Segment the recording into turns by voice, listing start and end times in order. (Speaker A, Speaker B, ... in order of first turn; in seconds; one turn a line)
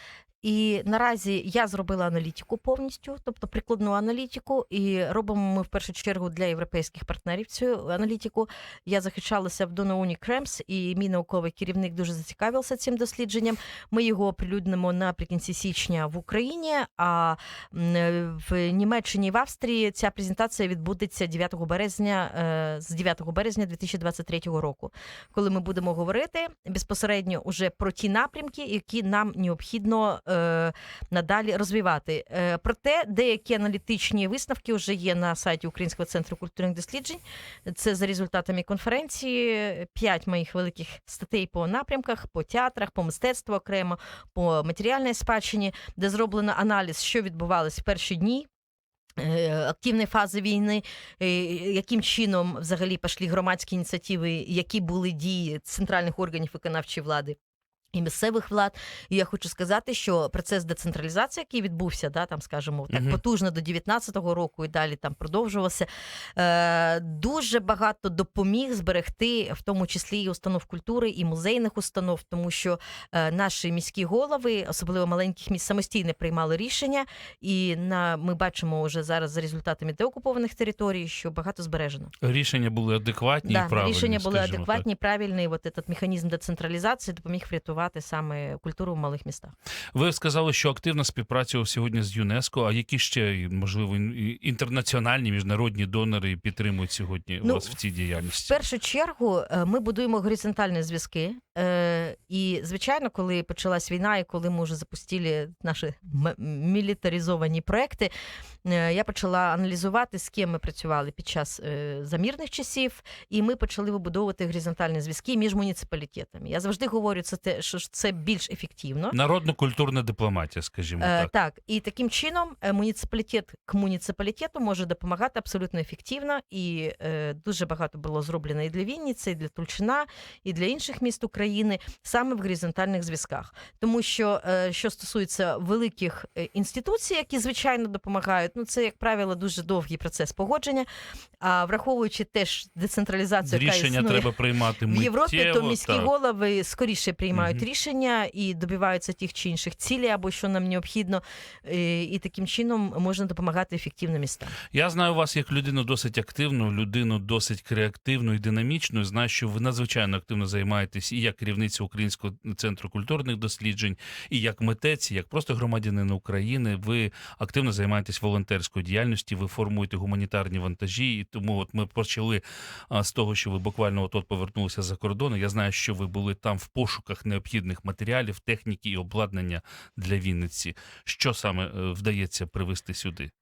Speaker A: 0.4-48.5
Speaker A: 49.2-57.4
Speaker A: 57.9-82.1
Speaker B: 62.9-63.2
Speaker B: 82.2-84.8
Speaker A: 83.4-89.5
Speaker B: 89.9-98.6
Speaker A: 97.4-97.8
Speaker A: 98.4-108.1
Speaker A: 108.6-119.2
Speaker B: 119.1-121.3
Speaker A: 121.0-140.9
Speaker A: 141.4-144.3
Speaker B: 143.4-146.1
Speaker A: 144.9-154.6
Speaker B: 147.3-147.6
Speaker B: 154.7-183.3